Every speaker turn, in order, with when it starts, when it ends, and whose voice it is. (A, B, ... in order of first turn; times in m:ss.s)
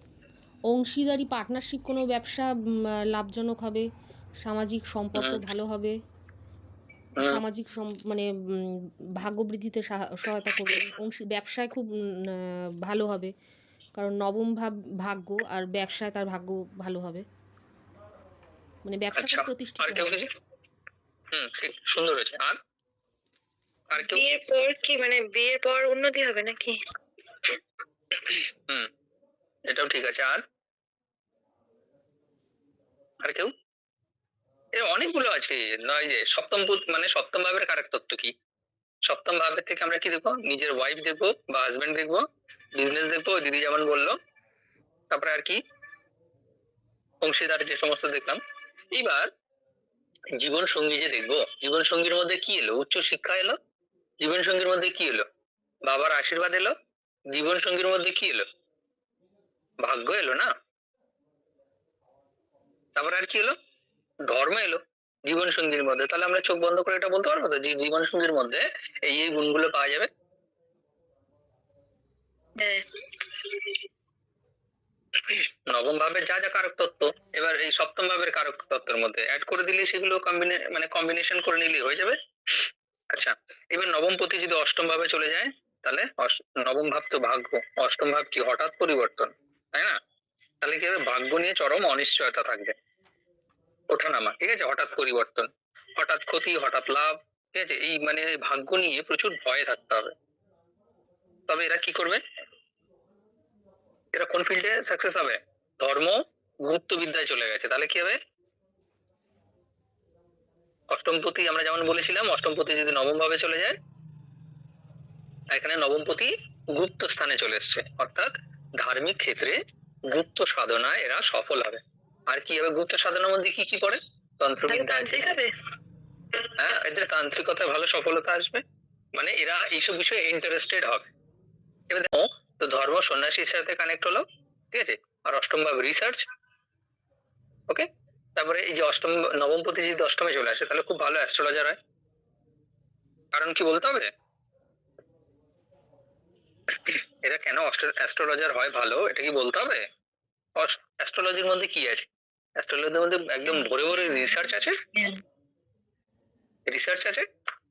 0:00.7-0:02.5 A
0:03.1-0:03.9 A
0:04.4-0:06.0 A
0:05.2-0:05.4 B
0:07.2-0:08.6 A
0:09.2-0:13.3 A
0:14.0-0:17.2 A
0:18.9-0:20.2 A
0:19.2-0:20.3 B
0:21.3-0:22.6 B
0:23.9-0:24.3 B
0:24.0-0:26.8 C
0:28.3-0:28.9 B
0:29.7-0:30.4 B
0:33.2-0:33.5 B
0:34.8-0:38.3 B
0:39.1-0:44.2 B
0:45.1-0:45.6 B
0:47.2-0:48.4 B
0:48.9-0:49.3 B
0:50.4-0:53.6 B
0:54.2-0:55.3 B
0:55.9-0:56.8 B
0:57.3-0:58.4 B
0:59.8-1:00.5 B
1:03.0-1:03.6 B
1:04.3-1:10.1 B
1:12.6-1:13.8 C
1:15.2-1:30.0 B
1:30.6-1:32.8 B
1:33.9-1:40.1 B
1:41.5-1:42.2 B
1:44.2-1:48.2 B
1:50.9-1:53.8 B
1:55.5-2:05.3 B
2:04.7-2:05.5 C
2:06.6-2:08.6 B
2:09.2-2:11.1 B
2:11.9-2:16.2 B
2:17.7-2:21.8 B
2:23.3-2:24.1 B
2:26.7-2:29.8 B
2:30.6-2:32.1 B
2:32.6-2:34.8 B
2:36.7-2:37.2 B